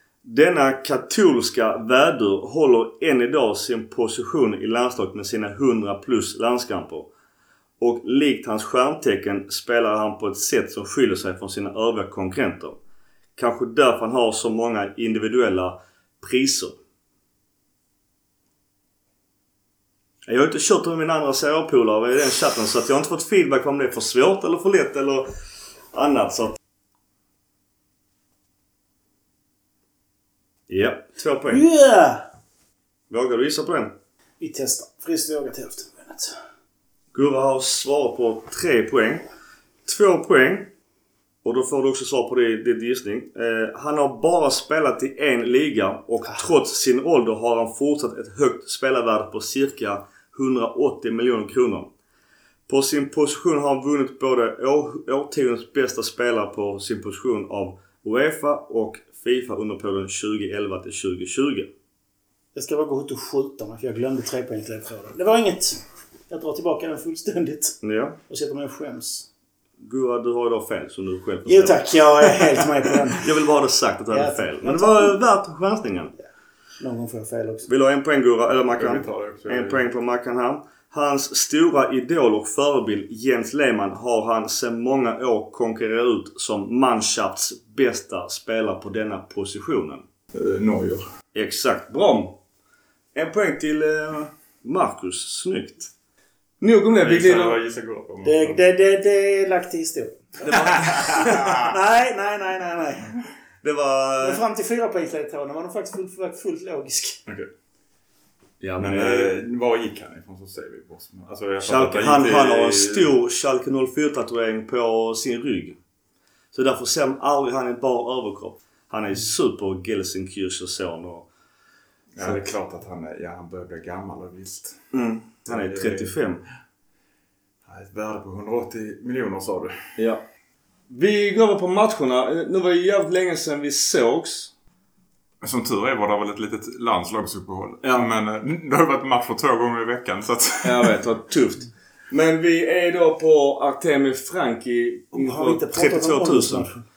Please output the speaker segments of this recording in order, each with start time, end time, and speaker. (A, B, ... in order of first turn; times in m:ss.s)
0:00.2-0:07.1 A
0:07.8-0:12.8 A
0:13.4-0:16.8 A
0:20.3-0:25.3 A
0:25.9-0:26.6 A
0:30.7-0:31.6 A
0:31.5-0:32.3 B
0:33.1-0:33.9 A
0:34.4-0:36.4 B
0:37.1-0:39.3 A
0:39.9-0:40.7 A
0:41.4-0:51.9 A
0:52.7-1:01.7 A
1:02.6-1:09.3 B
1:07.8-1:08.2 A
1:09.8-1:12.6 A
1:11.5-1:13.3 B
1:13.1-1:16.1 A
1:14.1-1:15.2 B
1:16.8-1:17.7 B
1:17.7-1:30.0 A
1:18.8-1:19.8 C
1:30.3-1:31.1 C
1:31.3-1:32.4 A
1:33.2-1:35.9 A
1:36.6-1:37.6 A
1:37.0-1:38.6 C
1:38.2-1:43.1 B
1:40.5-1:41.6 A
1:40.8-1:41.0 C
1:43.6-1:44.4 A
1:44.2-1:47.2 B
1:48.6-1:49.3 A
1:48.8-1:53.1 C
1:51.6-1:55.8 A
1:56.5-2:01.3 A
2:02.2-2:04.8 C
2:04.9-2:06.4 A
2:05.5-2:06.2 C
2:07.7-2:09.8 C
2:10.0-2:10.2 A
2:10.9-2:14.5 A
2:15.4-2:21.0 C
2:17.8-2:18.1 A
2:20.6-2:26.7 A
2:25.1-2:26.8 B